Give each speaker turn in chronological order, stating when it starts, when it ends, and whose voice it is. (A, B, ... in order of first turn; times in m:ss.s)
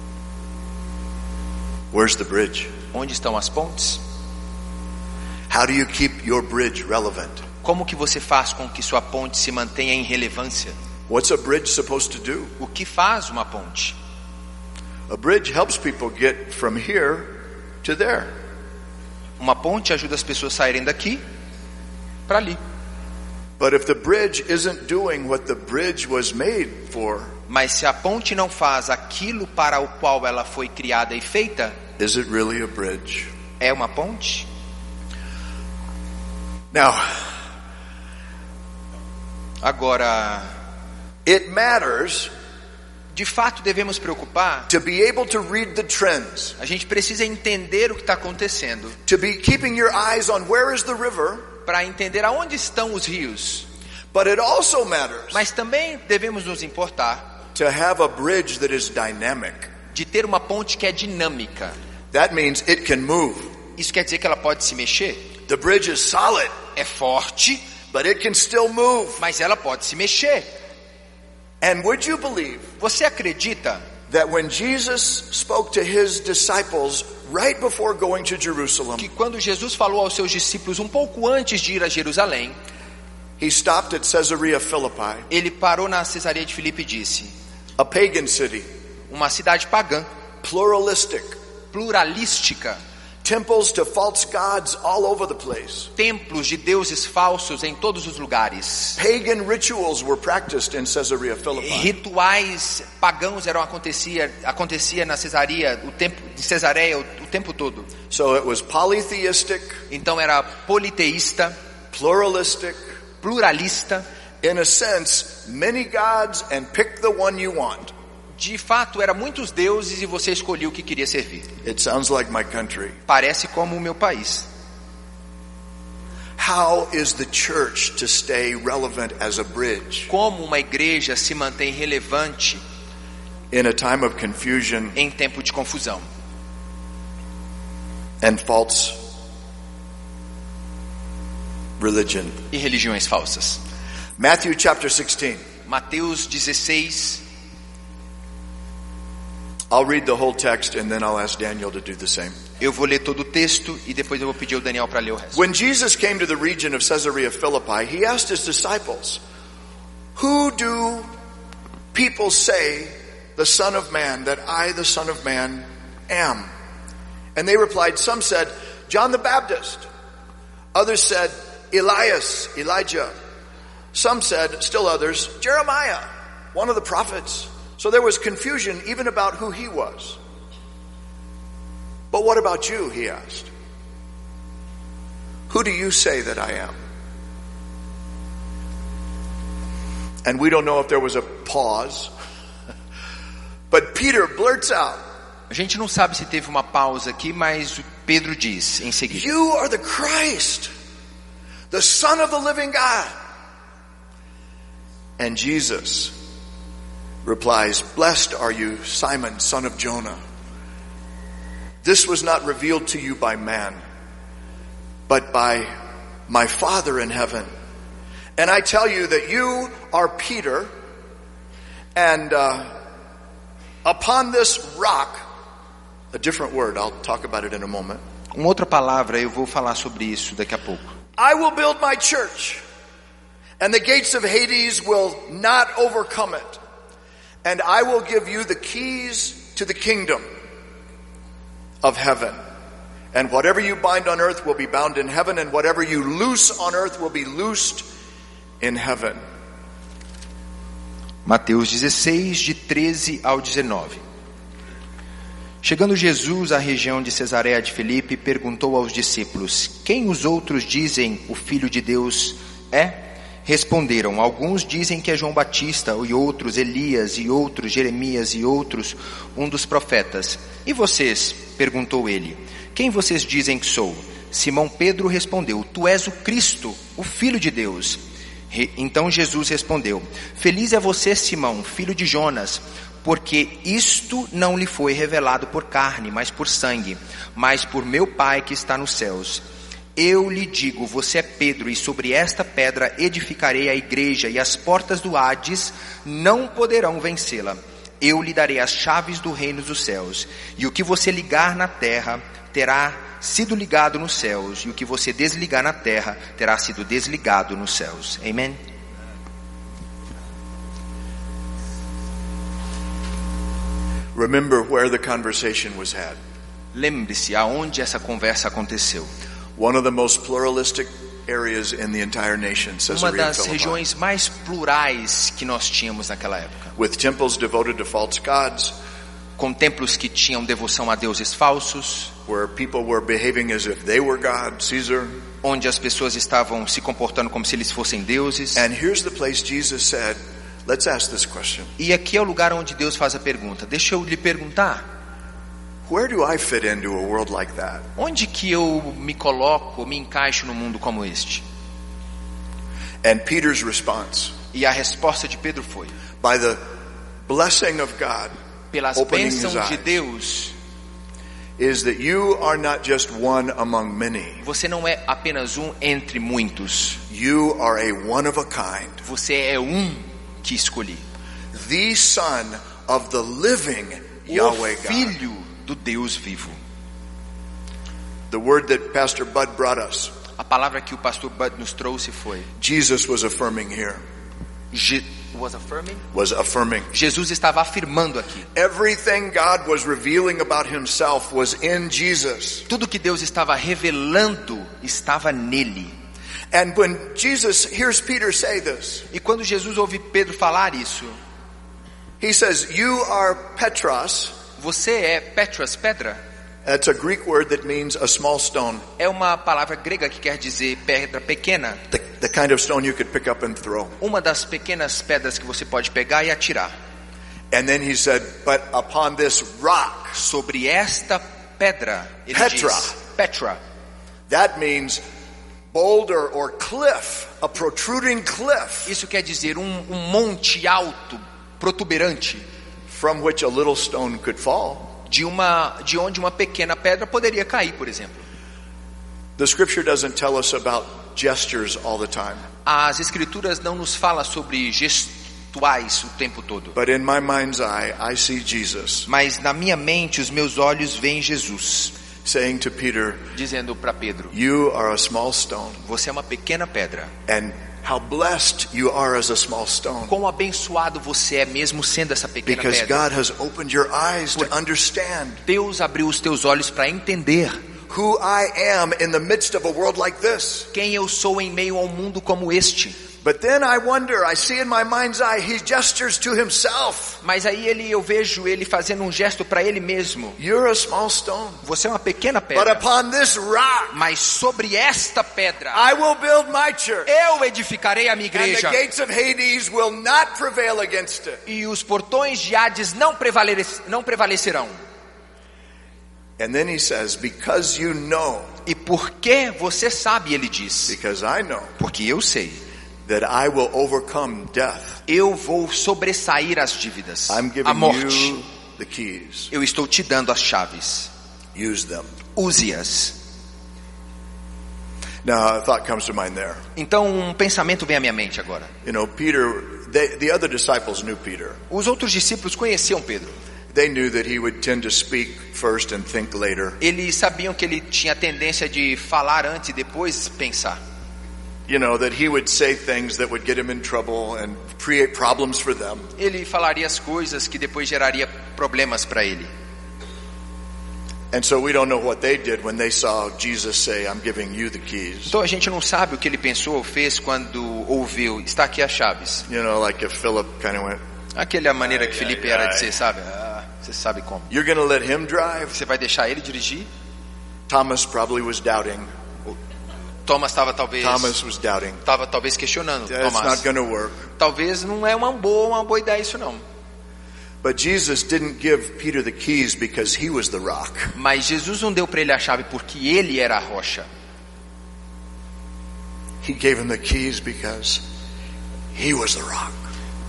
0:01.9-0:02.7 A
0:02.9-0:04.0 B
0:05.5-0:07.4 A
0:07.6-0:10.7 B
0:11.1-0:12.5 A
0:12.6-0:13.9 B
0:15.1-0:18.3 A
0:19.4-0:21.2 B
0:22.3-0:22.6 B
0:23.6-0:27.3 A
0:27.5-0:31.8 B
0:32.0-0:33.3 A
0:33.6-0:34.5 B
0:36.7-0:37.3 A
0:39.6-0:40.5 B
0:41.2-0:42.3 A
0:43.1-0:44.7 B
0:44.7-0:46.6 A
0:46.6-0:49.0 B
0:49.1-0:51.5 A
0:51.6-0:53.6 B
0:54.1-0:55.4 A
0:55.3-0:57.2 B
0:57.5-0:59.7 A
0:59.9-1:01.8 B
1:02.1-1:03.5 A
1:03.8-1:05.3 B
1:05.5-1:06.5 A
1:06.8-1:07.6 B
1:07.9-1:09.2 A
1:09.2-1:10.5 B
1:11.6-1:12.7 A
1:12.8-1:13.8 B
1:14.1-1:19.1 A
1:19.0-1:22.6 B
1:23.4-1:25.3 A
1:25.3-1:27.3 B
1:27.8-1:28.6 A
1:29.1-1:30.1 B
1:30.4-1:31.4 A
1:31.7-1:32.8 B
1:33.2-1:35.9 A
1:36.0-1:39.0 B
1:39.0-1:41.9 A
1:41.6-1:47.9 B
1:48.1-1:49.8 A
1:49.9-1:51.5 B
1:51.9-1:52.8 A
1:53.2-1:54.0 B
1:54.4-1:57.9 A
1:58.4-2:01.5 B
2:01.6-2:03.0 A
2:03.1-2:04.5 B
2:06.4-2:10.1 A
2:10.1-2:12.6 B
2:13.5-2:15.0 A
2:15.0-2:16.0 B
2:18.2-2:19.0 A
2:21.8-2:22.4 A
2:22.5-2:23.6 B
2:24.2-2:25.4 A
2:25.7-2:27.2 B
2:29.7-2:32.3 A
2:32.6-2:35.4 B
2:35.3-2:39.2 A
2:40.2-2:41.1 A
2:41.9-2:46.5 A
2:47.3-2:49.9 A
2:50.7-2:53.1 A
2:53.9-3:00.2 A
3:02.1-3:03.5 A
3:05.5-3:06.8 A
3:10.2-3:12.1 A
3:13.7-3:15.0 A
3:15.5-3:19.3 B
3:19.1-3:20.7 A
3:21.7-3:23.1 A
3:25.2-3:26.1 A
3:27.2-3:30.2 A
3:31.8-3:33.8 A
3:35.1-3:35.7 A
3:36.3-3:37.5 A
3:38.4-3:40.7 A
3:41.9-3:42.7 A
3:43.8-3:45.2 A
3:46.1-3:48.0 A
3:48.3-3:50.8 B
3:51.2-3:52.6 A
3:53.6-3:56.6 A
3:57.4-4:00.2 A
4:01.8-4:02.4 A
4:03.1-4:07.8 A
4:08.6-4:09.2 A
4:11.2-4:14.0 B
4:15.6-4:38.0 B
4:38.5-4:49.4 B
4:50.0-5:08.6 B
5:14.1-5:16.2 A
5:16.7-5:19.1 B
5:19.6-5:23.8 A
5:22.9-5:26.7 B
5:26.8-5:28.7 A
5:29.4-5:32.1 B
5:32.3-5:35.2 A
5:35.4-5:38.6 B
5:38.5-5:41.7 A
5:41.8-5:44.8 B
5:45.9-5:47.8 A
5:48.0-5:51.4 B
5:53.0-5:54.3 A
5:54.5-5:55.9 B
5:56.2-5:56.6 A
5:57.2-5:58.3 A
5:58.7-6:00.5 B
5:59.0-6:00.0 A
6:01.6-6:04.4 A
6:04.4-6:07.0 B
6:07.1-6:09.0 A
6:09.0-6:11.0 B
6:11.5-6:15.1 A
6:14.3-6:16.6 B
6:18.3-6:20.1 A
6:20.4-6:22.5 B
6:22.6-6:24.0 A
6:24.7-6:26.0 B
6:26.1-6:26.9 A
6:26.9-6:28.5 B
6:28.5-6:32.6 A
6:32.7-6:36.0 B
6:36.5-6:39.0 A
6:39.1-6:41.2 B
6:42.2-6:44.3 A
6:44.6-6:46.2 B
6:46.6-6:48.8 A
6:49.0-6:51.8 B
6:51.9-6:53.9 A
6:54.0-6:56.7 B
6:57.5-7:00.2 A
7:00.1-7:03.6 B
7:02.3-7:02.9 A
7:04.3-7:05.0 A
7:05.7-7:08.9 A
7:08.8-7:12.4 B
7:12.9-7:14.9 A
7:15.1-7:18.2 B
7:19.4-7:22.4 A
7:22.6-7:26.8 B
7:26.7-7:29.1 A
7:29.0-7:31.9 B
7:32.2-7:33.2 A
7:33.3-7:34.3 B
7:34.3-7:35.8 A
7:35.8-7:37.1 B
7:37.3-7:40.1 A
7:40.1-7:43.0 B
7:42.4-7:45.4 A
7:45.4-7:47.6 B
7:47.9-7:50.7 A
7:50.7-7:53.0 B
7:53.2-7:57.2 A
7:57.2-8:00.4 B
8:00.4-8:01.6 A
8:01.6-8:02.8 B
8:02.5-8:04.0 A
8:03.9-8:05.8 B
8:05.7-8:07.1 A
8:07.0-8:08.8 B
8:08.3-8:11.4 A
8:11.4-8:14.8 B
8:16.4-8:18.5 A
8:18.6-8:21.0 B
8:20.9-8:21.7 A
8:21.8-8:22.6 B
8:23.0-8:25.0 A
8:25.1-8:28.4 B
8:27.3-8:29.5 A
8:29.5-8:31.1 B
8:31.5-8:32.1 A
8:32.3-8:33.2 B
8:35.2-8:36.6 A
8:36.8-8:38.7 B
8:38.8-8:41.6 A
8:41.7-8:43.4 B
8:43.7-8:46.8 A
8:46.8-8:50.8 B
8:51.7-8:56.1 A
8:56.2-8:59.5 B
9:01.3-9:05.3 A
9:05.3-9:09.4 B
9:09.5-9:11.0 A
9:11.3-9:14.5 B
9:12.1-9:12.8 A
9:14.5-9:15.7 A
9:15.7-9:16.9 B
9:17.7-9:19.1 A
9:20.2-9:21.3 B
9:21.0-9:22.0 A
9:22.0-9:23.6 B
9:23.1-9:24.2 A
9:24.4-9:26.6 B
9:27.6-9:31.1 A
9:31.1-9:34.1 B
9:36.4-9:38.0 A
9:38.9-9:39.8 A